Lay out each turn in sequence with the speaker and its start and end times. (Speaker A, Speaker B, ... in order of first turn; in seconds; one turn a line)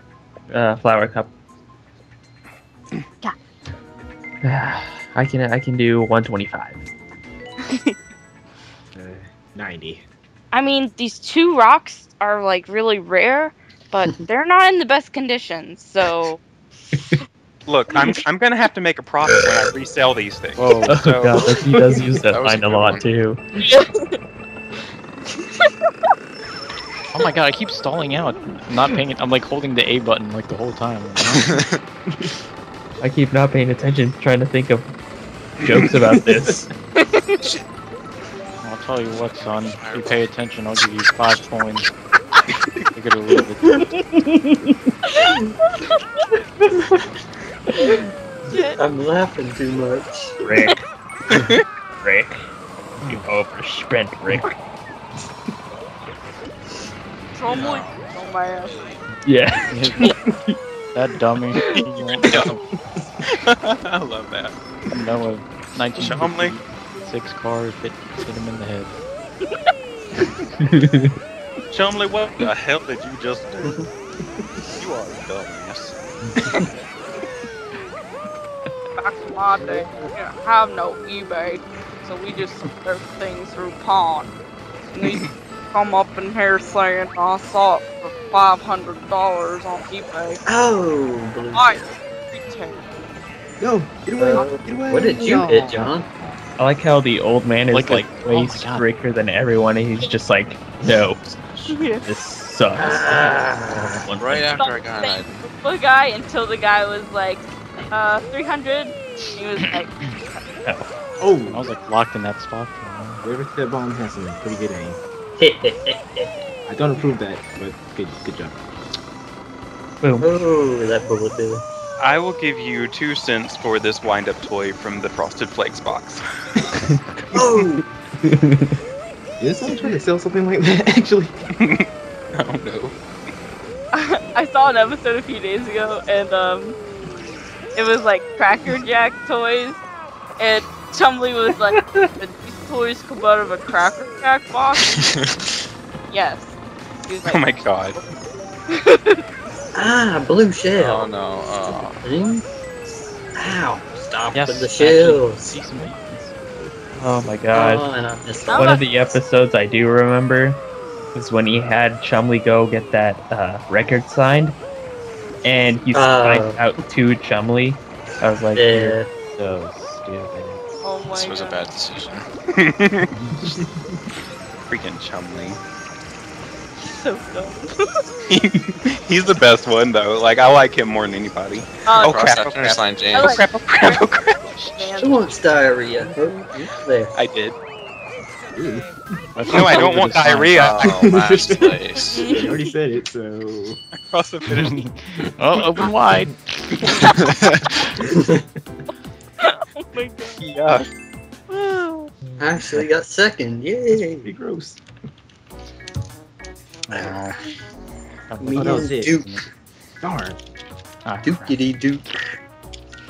Speaker A: 0.5-1.3
Speaker A: 4.4-6.8
Speaker B: 8.9-10.0
Speaker C: 10.5-16.4
Speaker D: 17.7-21.4
Speaker E: 20.6-21.0
Speaker A: 20.9-23.4
Speaker B: 21.4-22.2
Speaker F: 22.3-23.1
Speaker C: 23.6-24.2
Speaker E: 27.1-31.4
Speaker F: 31.4-31.8
Speaker A: 33.0-34.9
Speaker A: 35.6-36.7
Speaker B: 36.1-36.5
Speaker C: 37.0-37.4
Speaker E: 38.6-41.9
Speaker F: 39.8-40.2
Speaker E: 42.9-43.8
Speaker A: 43.7-44.8
Speaker C: 45.1-46.2
Speaker A: 46.6-47.0
Speaker A: 47.7-48.0
Speaker C: 48.5-48.8
Speaker G: 48.7-50.4
Speaker A: 50.4-50.8
Speaker A: 52.0-52.5
Speaker A: 53.0-54.5
Speaker C: 57.3-58.7
Speaker D: 57.5-57.9
Speaker A: 59.2-60.6
Speaker E: 59.7-60.0
Speaker E: 60.9-62.6
Speaker D: 62.3-62.5
Speaker D: 63.3-64.5
Speaker E: 64.9-69.0
Speaker D: 66.0-66.5
Speaker A: 70.6-71.2
Speaker D: 71.7-73.8
Speaker D: 74.8-75.9
Speaker G: 76.2-76.6
Speaker C: 79.0-84.3
Speaker G: 79.6-80.1
Speaker C: 84.9-90.4
Speaker G: 90.4-91.8
Speaker C: 91.5-92.8
Speaker B: 93.6-96.3
Speaker G: 94.2-96.0
Speaker A: 96.6-104.5
Speaker E: 97.7-98.9
Speaker C: 101.7-102.0
Speaker G: 102.7-104.1
Speaker F: 104.1-105.3
Speaker C: 104.5-109.9
Speaker A: 110.6-110.9
Speaker B: 111.2-111.7
Speaker E: 111.5-113.3
Speaker B: 113.2-115.0
Speaker G: 115.4-116.3
Speaker B: 116.7-118.6
Speaker A: 120.0-120.3
Speaker G: 120.2-121.6
Speaker D: 122.0-126.2
Speaker G: 127.3-127.8
Speaker A: 128.2-128.8
Speaker B: 129.4-131.5
Speaker D: 131.6-132.9
Speaker C: 133.9-136.8
Speaker C: 137.7-139.8
Speaker C: 140.4-145.0
Speaker F: 144.9-145.4
Speaker C: 146.1-146.5
Speaker C: 147.1-147.6
Speaker D: 147.2-148.0
Speaker C: 148.7-149.2
Speaker G: 149.8-151.1
Speaker F: 150.8-152.0
Speaker G: 151.7-152.4
Speaker G: 153.4-155.6
Speaker A: 154.3-155.2
Speaker E: 155.3-156.1
Speaker A: 155.7-156.3
Speaker A: 156.9-157.8
Speaker G: 157.5-159.1
Speaker A: 158.5-160.6
Speaker C: 158.5-158.8
Speaker A: 161.1-164.6
Speaker A: 165.4-169.0
Speaker G: 165.9-166.7
Speaker G: 168.5-169.1
Speaker E: 169.4-170.6
Speaker C: 170.8-171.7
Speaker F: 171.1-172.3
Speaker D: 172.6-173.1
Speaker B: 173.4-174.0
Speaker D: 174.7-175.6
Speaker C: 176.8-178.0
Speaker D: 178.3-184.4
Speaker C: 181.8-182.2
Speaker F: 181.9-183.5
Speaker C: 183.1-183.4
Speaker C: 184.7-185.2
Speaker G: 185.0-187.1
Speaker D: 187.1-187.6
Speaker B: 188.5-188.9
Speaker E: 189.3-190.6
Speaker D: 189.5-191.0
Speaker F: 190.5-192.3
Speaker B: 190.8-193.8
Speaker C: 192.0-192.7
Speaker D: 194.1-194.9
Speaker E: 194.5-196.9
Speaker C: 197.0-197.3
Speaker F: 197.3-197.5
Speaker G: 198.1-198.4
Speaker C: 199.4-200.4
Speaker D: 200.3-200.8
Speaker C: 201.5-202.1
Speaker G: 202.4-204.3
Speaker B: 204.2-204.8
Speaker E: 206.9-207.4
Speaker E: 208.3-209.5
Speaker G: 208.4-209.4
Speaker B: 208.5-209.2
Speaker B: 210.0-210.4
Speaker E: 211.0-211.6
Speaker G: 211.2-212.1